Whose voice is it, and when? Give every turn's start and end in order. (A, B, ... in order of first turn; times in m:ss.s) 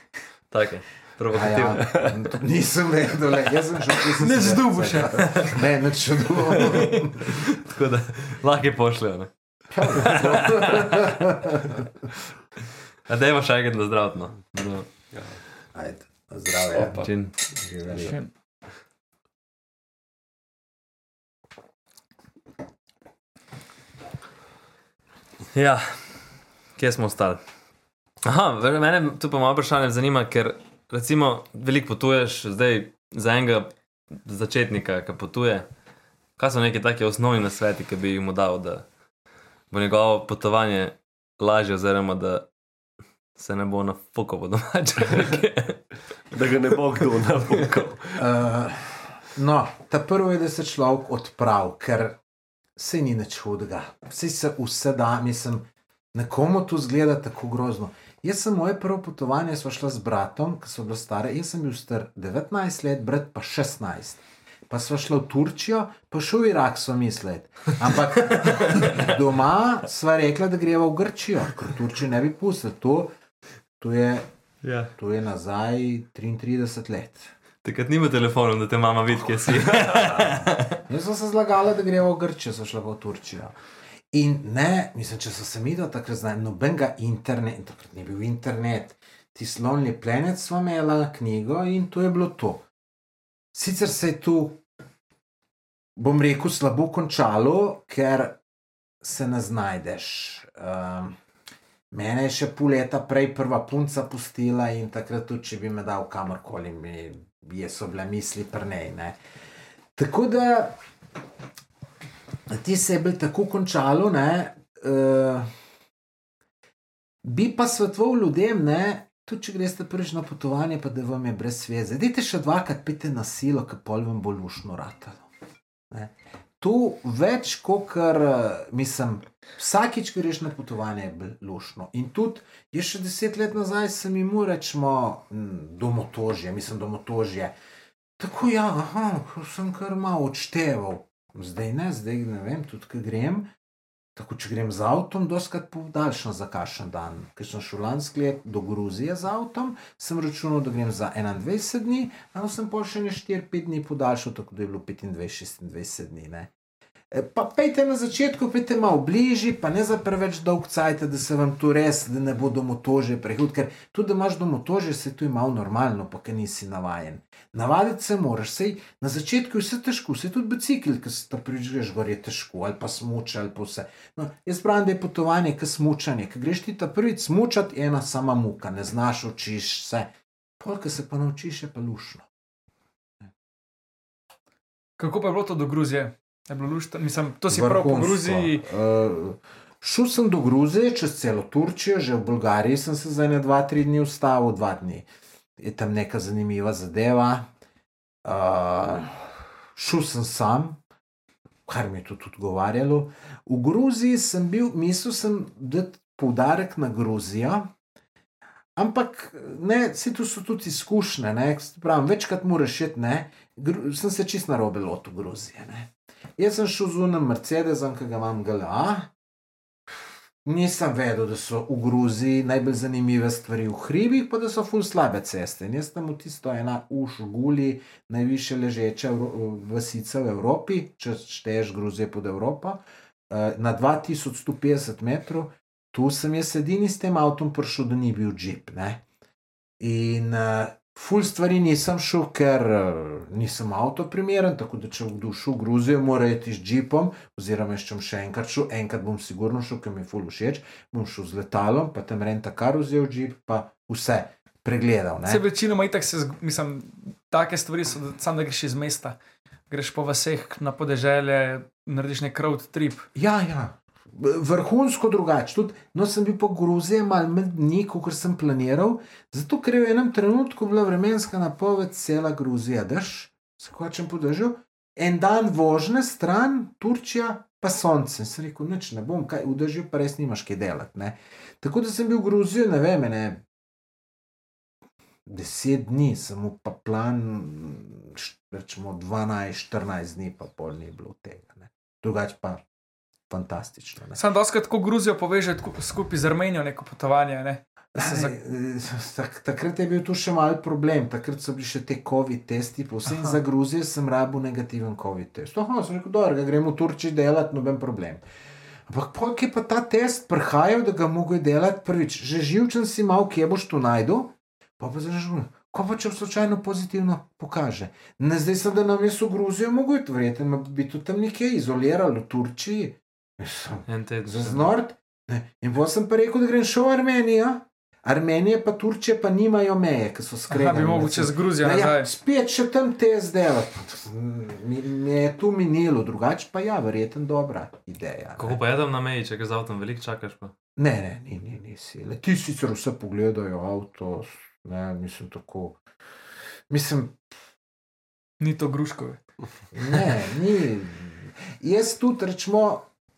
0:00.5-0:02.0 A
0:01.3-0:07.5 B
0:04.2-0:05.4 C
0:06.5-0:11.1 A
0:09.7-0:11.8 B
0:13.1-0:14.9 A
0:15.1-0:15.4 D
0:15.7-0:18.2 B
0:16.7-0:17.2 D
0:17.0-0:17.4 A
0:18.0-0:18.3 C
0:25.5-0:26.2 A
0:26.8-0:27.4 A
0:28.2-0:35.7 A
0:36.4-0:38.9 A
0:39.7-0:42.5 A
0:43.4-0:45.8 A
0:46.3-0:48.2 D
0:48.2-0:52.2 B
0:52.8-1:13.1 B
1:08.3-1:09.0 A
1:13.8-1:14.3 B
1:14.6-1:14.9 A
1:15.0-1:17.3 B
1:17.6-1:20.8 A
1:19.8-1:23.6 B
1:24.1-1:32.6 B
1:33.5-1:34.6 B
1:36.0-1:38.4 B
1:39.0-1:41.2 B
1:41.9-1:49.2 B
1:50.0-1:50.8 B
1:52.5-1:55.5 B
1:57.2-2:05.3 B
2:05.9-2:17.6 B
2:18.2-2:23.5 B
2:24.2-2:36.5 B
2:37.1-3:02.3 B
3:05.0-3:08.6 C
3:07.5-3:15.1 B
3:15.6-3:17.5 B
3:18.2-3:20.8 B
3:21.7-3:27.7 B
3:28.8-3:39.1 B
3:40.4-3:59.0 B
3:59.8-4:15.4 B
4:15.3-4:19.2 C
4:19.7-4:23.1 C
4:23.2-4:43.4 B
4:45.3-4:52.6 B
4:53.3-4:54.2 B
4:54.2-4:58.3 C
4:58.0-5:08.2 B
5:08.9-5:38.6 B
5:23.9-5:24.7 A
5:30.5-5:32.1 C
5:38.4-5:40.5 A
5:40.8-5:45.8 B
5:46.7-5:47.2 B
5:48.4-5:49.2 C
5:49.7-5:52.9 B